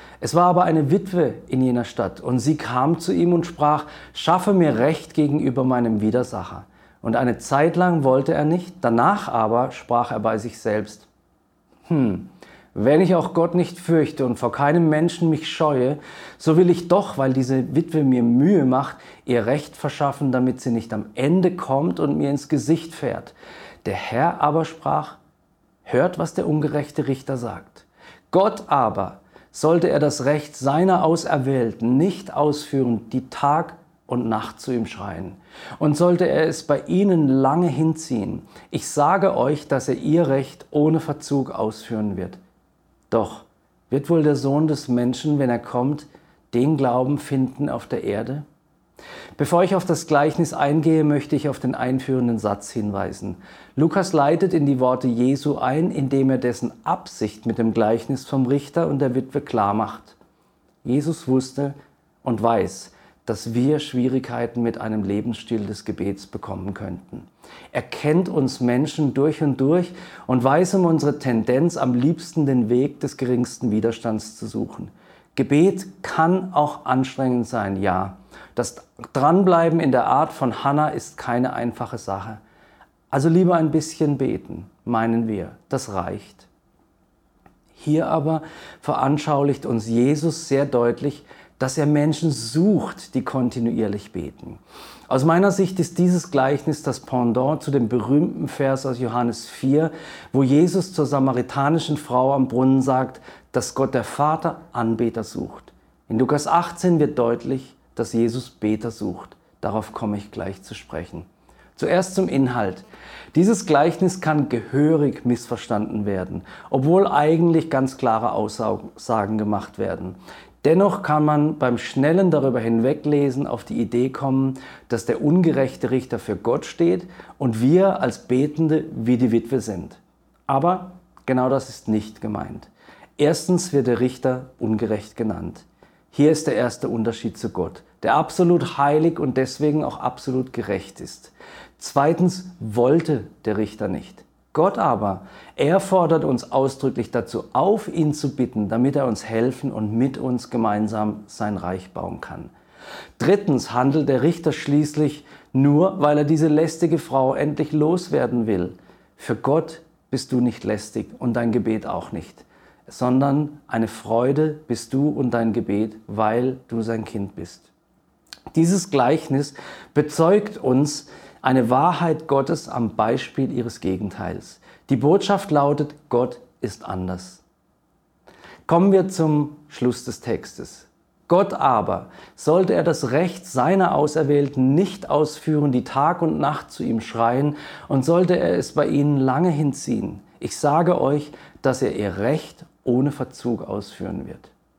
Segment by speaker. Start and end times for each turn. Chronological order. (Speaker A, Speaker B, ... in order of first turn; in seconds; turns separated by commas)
Speaker A: 0.2-11.1, Speaker A: 11.9-25.2, Speaker A: 25.9-42.4, Speaker A: 43.1-48.5, Speaker A: 49.4-60.2, Speaker A: 60.8-82.4, Speaker A: 83.1-86.5, Speaker A: 87.8-152.5, Speaker A: 153.2-167.7, Speaker A: 168.5-177.4, Speaker A: 178.7-194.5